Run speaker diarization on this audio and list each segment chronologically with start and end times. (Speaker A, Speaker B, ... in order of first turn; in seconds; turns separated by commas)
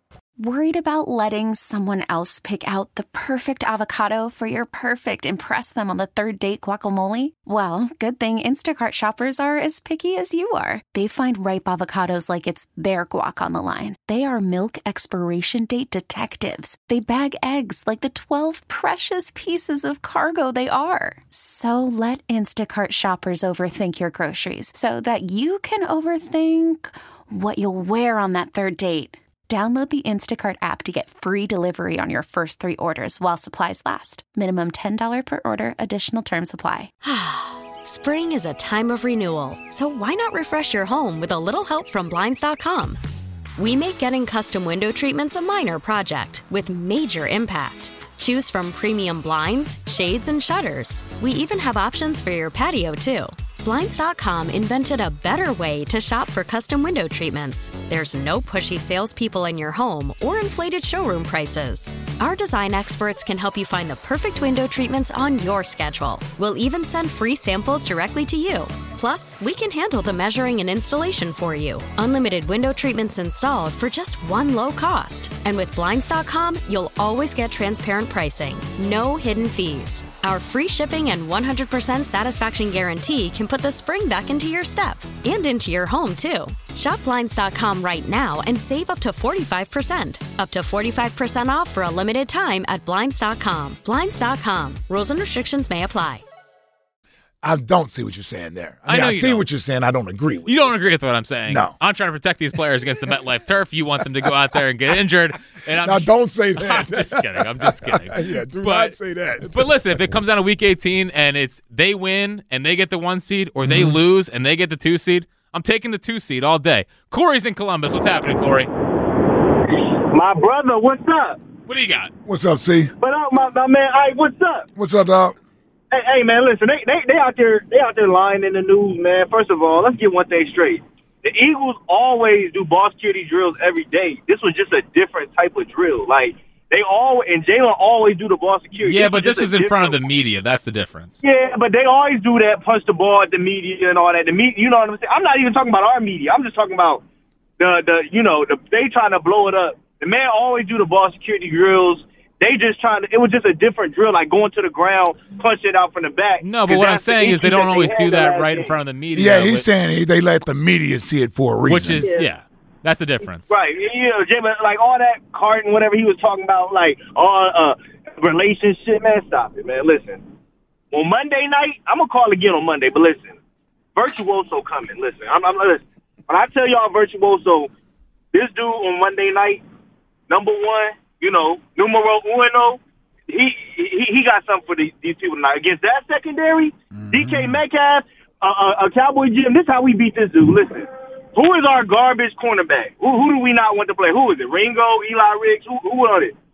Speaker A: 0.4-36.9, Speaker B: 37.0-43.0, Speaker B: 43.6-96.2, Speaker C: 97.4-100.7, Speaker D: 98.9-99.5, Speaker D: 100.5-118.7, Speaker C: 101.5-101.8, Speaker C: 105.8-109.7, Speaker C: 113.6-114.0, Speaker E: 119.8-121.4, Speaker D: 121.7-122.1, Speaker C: 122.3-122.9, Speaker E: 123.0-124.7, Speaker C: 124.8-125.4, Speaker E: 125.9-140.0, Speaker D: 138.8-141.2, Speaker E: 141.2-147.0, Speaker E: 147.6-158.7, Speaker D: 156.4-159.7, Speaker C: 159.2-162.1, Speaker D: 161.7-163.5, Speaker E: 163.5-170.2, Speaker E: 170.9-173.4, Speaker E: 174.0-177.7, Speaker E: 178.3-179.6, Speaker E: 180.3-196.3, Speaker C: 187.0-187.6